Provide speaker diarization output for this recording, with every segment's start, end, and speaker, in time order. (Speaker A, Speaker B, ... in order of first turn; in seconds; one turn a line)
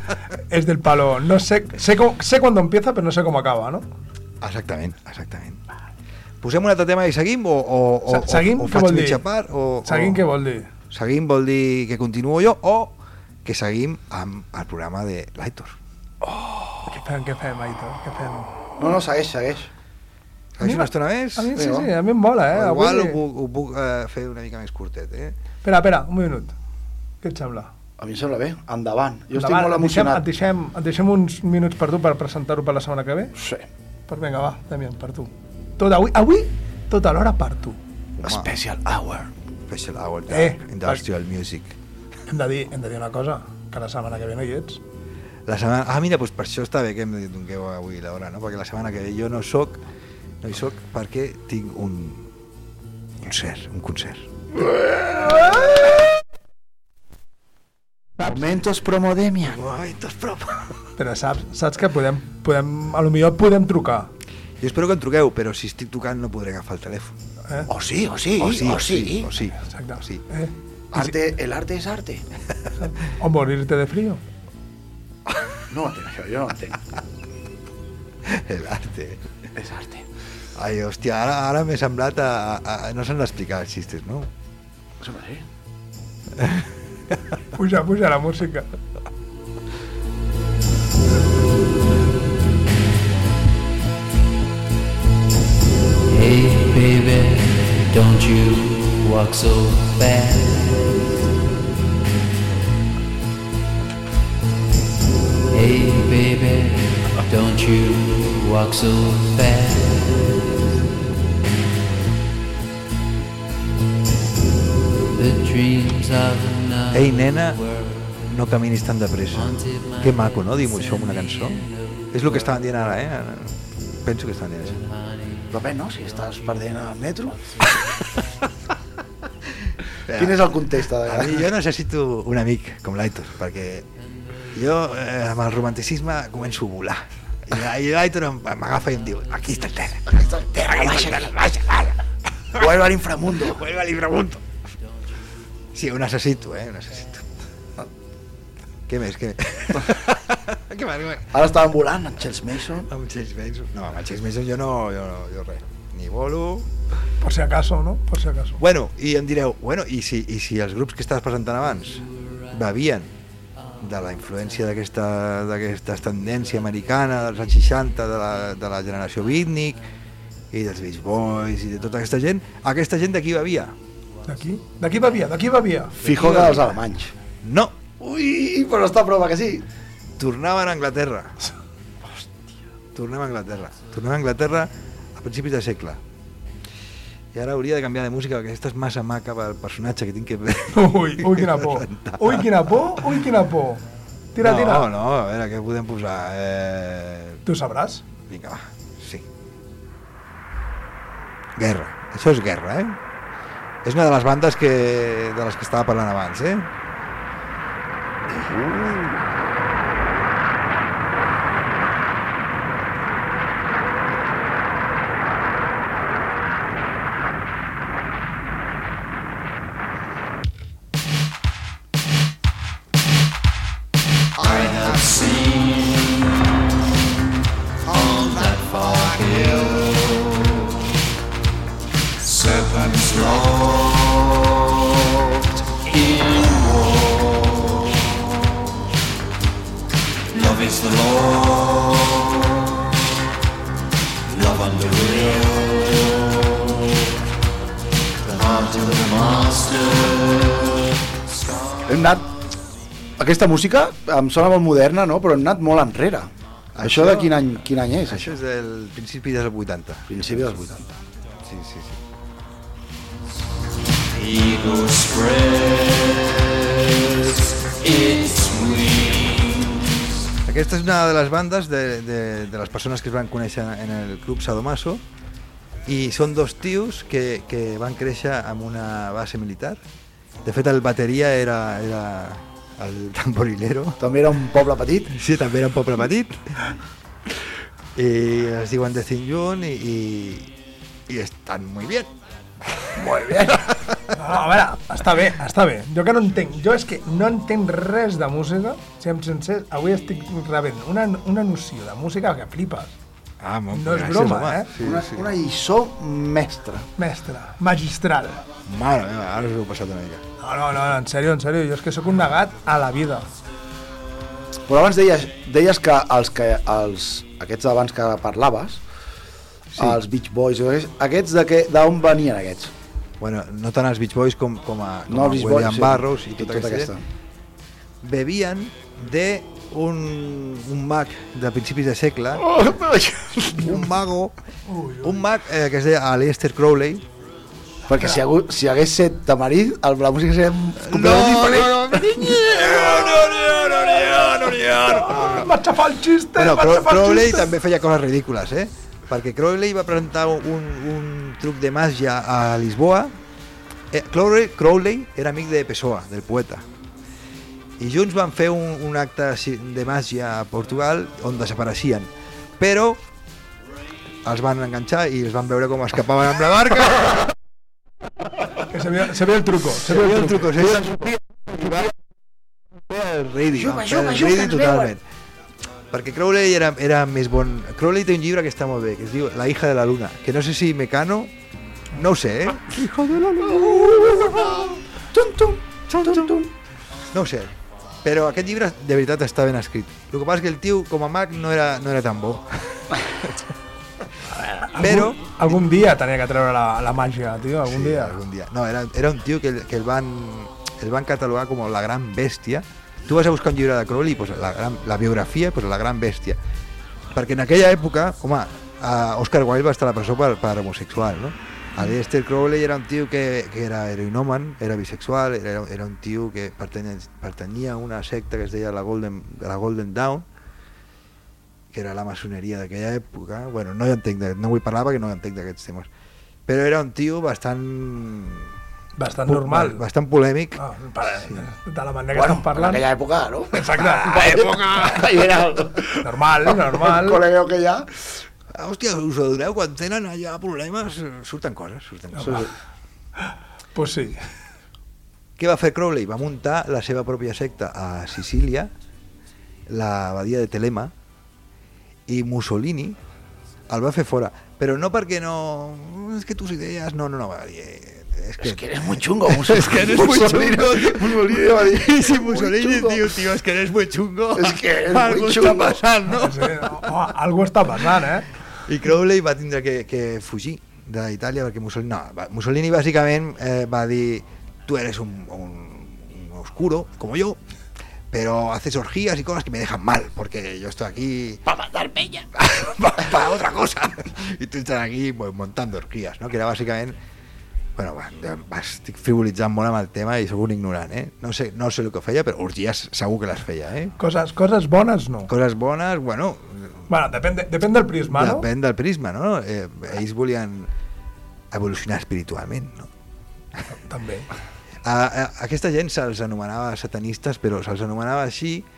Speaker A: 0.5-3.9
Speaker B: 4.4-5.6
Speaker B: 6.4-10.2
Speaker A: 8.1-9.2
Speaker A: 9.8-10.7
Speaker B: 10.9-15.8
Speaker A: 16.9-18.6
Speaker C: 18.8-19.7
Speaker B: 20.6-21.5
Speaker A: 20.6-23.2
Speaker C: 21.5-21.9
Speaker B: 22.5-25.4
Speaker A: 25.6-26.6
Speaker A: 27.2-27.7
Speaker C: 28.0-30.2
Speaker A: 29.4-33.4
Speaker C: 33.4-33.7
Speaker A: 34.1-37.8
Speaker B: 38.2-38.5
Speaker C: 38.2-39.3
Speaker B: 39.7-41.8
Speaker A: 40.3-41.0
Speaker A: 42.3-44.8
Speaker B: 45.5-49.8
Speaker B: 50.4-52.3
Speaker B: 53.2-54.3
Speaker C: 54.8-55.9
Speaker C: 58.2-59.6
Speaker B: 59.4-60.8
Speaker A: 61.0-64.1
Speaker B: 64.6-67.2
Speaker C: 67.7-69.3
Speaker B: 68.4-70.2
Speaker A: 69.6-71.2
Speaker C: 70.9-72.2
Speaker A: 72.8-74.2
Speaker C: 75.7-76.8
Speaker B: 78.2-79.2
Speaker C: 79.6-80.1
Speaker B: 80.5-84.3
Speaker C: 85.0-85.5
Speaker B: 86.4-86.7
Speaker A: 87.5-88.7
Speaker D: 96.1-101.0
Speaker D: 105.5-110.6
Speaker D: 115.1-118.3
Speaker B: 116.9-117.6
Speaker B: 118.3-124.8
Speaker D: 119.3-123.0
Speaker D: 124.7-126.8
Speaker C: 125.5-127.4
Speaker D: 127.3-128.4
Speaker B: 129.7-133.9
Speaker C: 130.1-131.5
Speaker B: 134.5-142.0
Speaker C: 140.1-141.3
Speaker C: 142.6-143.6
Speaker B: 143.4-144.4
Speaker B: 145.7-147.3
Speaker B: 148.9-151.4
Speaker C: 151.3-152.9
Speaker B: 152.9-156.7
Speaker A: 157.2-158.6
Speaker B: 158.6-163.1
Speaker B: 163.8-169.8
Speaker B: 170.5-173.8
Speaker A: 174.3-176.0
Speaker C: 176.0-177.1
Speaker B: 176.0-176.8
Speaker B: 177.4-177.8
Speaker C: 178.0-179.7
Speaker B: 180.2-181.4
Speaker C: 182.0-182.3
Speaker B: 182.9-186.0
Speaker B: 187.3-193.1
Speaker A: 190.7-193.8
Speaker A: 194.3-194.9
Speaker B: 194.4-197.4
Speaker A: 197.5-198.0
Speaker B: 198.3-199.2
Speaker B: 201.6-203.0
Speaker B: 203.8-206.7
Speaker D: 224.4-226.5
Speaker D: 227.9-230.8
Speaker D: 232.2-238.1
Speaker D: 240.3-242.8
Speaker D: 244.3-247.1
Speaker D: 248.2-250.9
Speaker C: 251.9-252.3
Speaker C: 253.2-258.3
Speaker B: 256.8-257.5
Speaker B: 258.1-260.6
Speaker C: 260.1-260.9
Speaker B: 261.4-262.0
Speaker D: 264.1-269.9
Speaker B: 270.4-275.0
Speaker B: 275.9-279.8
Speaker B: 280.4-284.0
Speaker C: 284.0-285.1
Speaker B: 285.1-286.7
Speaker B: 287.9-290.5
Speaker B: 291.1-292.1
Speaker C: 292.9-293.6
Speaker B: 293.5-294.1
Speaker A: 294.1-303.0
Speaker B: 303.4-305.3
Speaker A: 303.7-304.7
Speaker C: 304.8-306.9
Speaker A: 307.0-308.4
Speaker B: 308.6-310.2
Speaker A: 310.4-313.3
Speaker C: 314.7-318.8
Speaker B: 319.7-320.0
Speaker C: 319.8-322.7
Speaker B: 323.2-326.9
Speaker C: 325.1-327.0
Speaker B: 328.0-332.5
Speaker C: 332.4-333.9
Speaker B: 333.5-334.4
Speaker A: 334.7-335.3
Speaker B: 335.0-337.1
Speaker C: 337.9-342.9
Speaker B: 340.8-345.5
Speaker A: 344.9-347.5
Speaker B: 346.4-353.1
Speaker B: 353.9-356.7
Speaker B: 357.8-363.0
Speaker B: 364.2-367.3
Speaker A: 368.7-370.6
Speaker B: 369.8-371.9
Speaker B: 372.9-375.0
Speaker C: 373.6-374.9
Speaker B: 375.9-381.3
Speaker B: 381.9-384.7
Speaker C: 383.4-386.5
Speaker B: 385.9-386.4
Speaker B: 387.1-387.5
Speaker B: 388.0-393.4
Speaker A: 394.4-398.2
Speaker B: 394.8-395.6
Speaker B: 397.6-406.4
Speaker B: 407.1-420.3
Speaker B: 421.7-425.9
Speaker B: 426.5-428.6
Speaker A: 429.0-429.8
Speaker B: 429.2-431.5
Speaker A: 430.6-432.9
Speaker C: 432.1-437.9
Speaker A: 433.5-434.6
Speaker B: 434.2-434.9
Speaker A: 436.0-437.2
Speaker B: 438.5-442.5
Speaker A: 442.1-442.4
Speaker C: 442.2-442.5
Speaker A: 443.2-444.2
Speaker B: 445.4-448.7
Speaker B: 449.7-450.9
Speaker B: 452.1-453.0
Speaker B: 453.7-466.9
Speaker C: 458.4-463.1
Speaker C: 464.4-465.8
Speaker A: 466.1-468.3
Speaker B: 468.7-477.4
Speaker B: 478.1-481.4
Speaker C: 481.5-482.3
Speaker B: 482.3-487.0
Speaker B: 487.8-493.9
Speaker A: 494.0-495.3
Speaker B: 495.3-496.9
Speaker A: 496.9-498.5
Speaker B: 498.1-500.7
Speaker B: 501.5-502.9
Speaker A: 503.7-504.3
Speaker B: 504.8-508.6